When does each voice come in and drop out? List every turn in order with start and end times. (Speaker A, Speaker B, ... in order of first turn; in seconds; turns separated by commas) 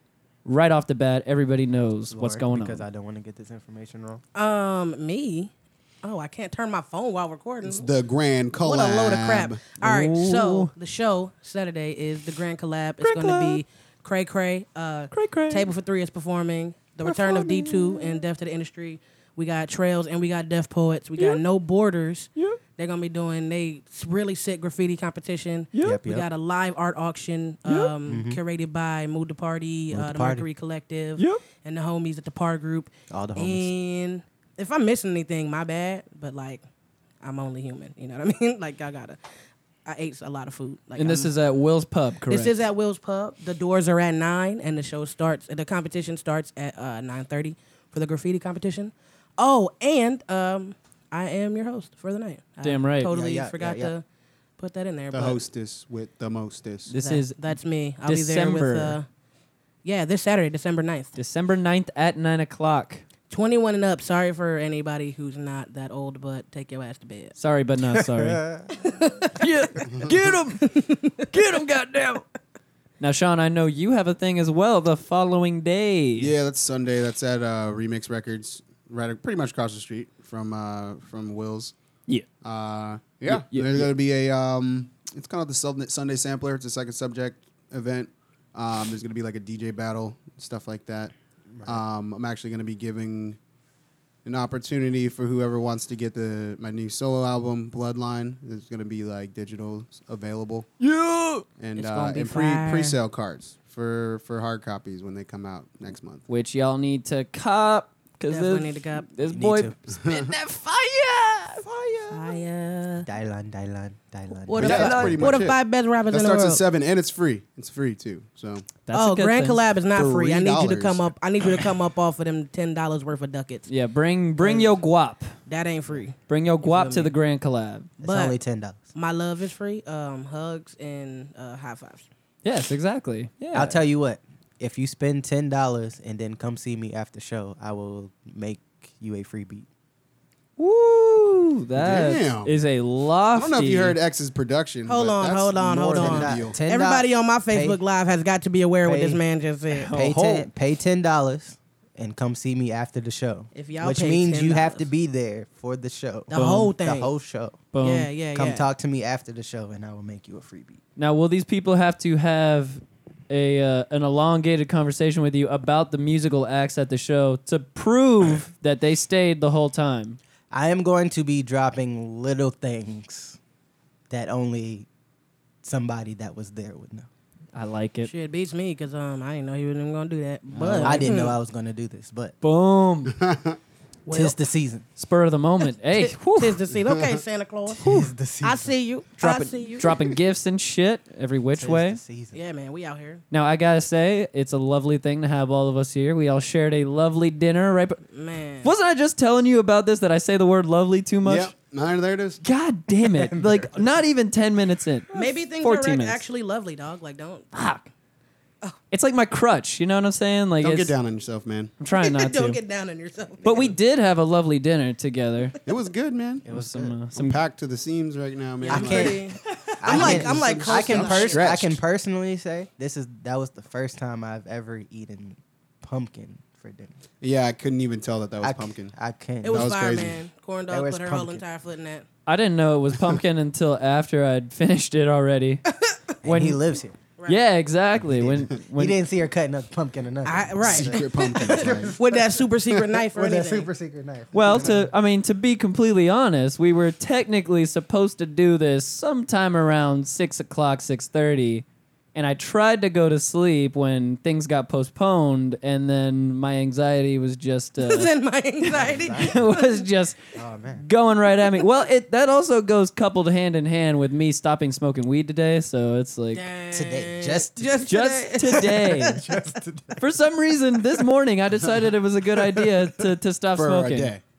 Speaker A: 0.5-2.9, Speaker B: 2.1-4.2, Speaker C: 4.3-5.5, Speaker C: 6.0-7.9, Speaker D: 7.7-9.6, Speaker C: 8.6-36.6, Speaker A: 9.8-10.7, Speaker A: 13.0-13.6, Speaker A: 15.1-15.7, Speaker A: 17.0-18.2, Speaker A: 25.7-26.0, Speaker B: 25.8-26.3, Speaker A: 27.7-27.9, Speaker B: 28.1-28.4, Speaker B: 29.9-30.5, Speaker A: 31.2-31.4, Speaker B: 33.1-33.7, Speaker C: 37.2-39.2, Speaker C: 39.9-41.3, Speaker A: 41.0-42.6, Speaker C: 42.3-54.0, Speaker A: 52.6-53.1, Speaker B: 53.1-53.9, Speaker C: 54.6-55.4, Speaker D: 55.1-56.9, Speaker A: 56.9-57.5, Speaker C: 57.0-59.1, Speaker A: 58.0-59.0, Speaker C: 59.8-61.1, Speaker A: 61.2-63.0, Speaker C: 63.3-67.4, Speaker A: 67.4-68.5, Speaker B: 67.9-68.8, Speaker C: 68.8-69.5, Speaker A: 69.3-72.2, Speaker C: 70.6-71.2, Speaker A: 73.0-76.3, Speaker D: 76.2-81.7, Speaker D: 82.4-91.1, Speaker A: 83.3-83.9, Speaker B: 91.5-91.8, Speaker D: 91.7-93.4, Speaker D: 94.2-100.7, Speaker A: 100.8-101.5, Speaker D: 101.6-106.2, Speaker C: 101.8-103.0, Speaker A: 106.3-109.7, Speaker C: 108.3-109.1, Speaker B: 109.3-109.8, Speaker D: 110.0-110.3, Speaker C: 110.1-111.6, Speaker B: 111.6-112.4, Speaker C: 112.1-113.1, Speaker B: 113.0-115.3, Speaker C: 114.4-116.6, Speaker D: 114.6-115.6, Speaker A: 114.7-115.0, Speaker D: 116.1-118.7, Speaker A: 118.9-119.6, Speaker C: 118.9-123.7, Speaker D: 119.9-121.1, Speaker A: 123.7-125.3, Speaker C: 124.4-124.7, Speaker C: 125.5-127.1, Speaker A: 126.3-127.9, Speaker B: 128.0-128.8, Speaker C: 128.0-128.4, Speaker C: 128.9-132.1, Speaker A: 132.4-133.8, Speaker B: 133.5-139.7, Speaker A: 140.6-144.0, Speaker D: 141.8-142.6, Speaker D: 143.3-146.6, Speaker C: 144.9-149.9, Speaker B: 145.6-147.8, Speaker B: 148.8-149.2, Speaker A: 149.7-150.5, Speaker B: 149.9-157.6, Speaker C: 153.6-154.9, Speaker C: 156.3-157.1, Speaker A: 156.3-156.7, Speaker A: 157.7-158.1, Speaker C: 157.8-158.7, Speaker B: 158.3-160.8, Speaker A: 161.0-170.2, Speaker B: 170.5-173.4, Speaker B: 174.1-174.9, Speaker B: 175.6-177.1, Speaker A: 177.5-178.1, Speaker C: 178.1-181.4, Speaker A: 180.5-181.1, Speaker B: 180.6-182.3, Speaker A: 182.4-183.2, Speaker D: 183.2-183.6, Speaker C: 184.1-184.4, Speaker B: 184.1-184.9, Speaker A: 185.0-186.6, Speaker C: 186.0-189.9, Speaker B: 187.7-188.7, Speaker A: 189.2-192.0, Speaker B: 191.6-192.4, Speaker C: 192.3-193.2, Speaker A: 193.3-198.0, Speaker C: 198.1-198.7, Speaker A: 198.6-201.5, Speaker D: 201.2-202.4, Speaker A: 202.4-206.2, Speaker B: 203.0-203.9, Speaker C: 205.1-207.6, Speaker A: 207.5-207.9, Speaker A: 208.9-210.9, Speaker D: 210.6-211.7, Speaker A: 211.8-212.6, Speaker C: 211.9-213.8, Speaker A: 213.4-215.6, Speaker D: 215.7-216.5, Speaker B: 216.4-217.0, Speaker A: 216.5-217.4, Speaker D: 217.1-219.2, Speaker C: 218.6-221.6, Speaker B: 218.7-219.2, Speaker B: 219.8-227.0, Speaker D: 219.9-221.8, Speaker D: 227.2-228.9, Speaker B: 228.4-229.8, Speaker C: 229.4-232.1, Speaker D: 229.5-230.2, Speaker B: 230.7-231.4, Speaker A: 232.3-235.6, Speaker B: 236.2-237.0, Speaker A: 236.2-236.6, Speaker A: 237.3-239.0, Speaker B: 238.0-242.4, Speaker C: 240.2-243.7, Speaker D: 240.6-242.0, Speaker B: 243.1-244.9, Speaker A: 244.3-258.1, Speaker C: 257.8-259.8, Speaker B: 258.7-259.4, Speaker A: 259.0-260.2, Speaker B: 260.4-260.9, Speaker A: 260.8-266.4, Speaker C: 266.3-269.2, Speaker B: 266.7-267.9, Speaker A: 267.9-269.2, Speaker B: 268.9-270.1, Speaker A: 270.0-274.1, Speaker D: 273.6-274.2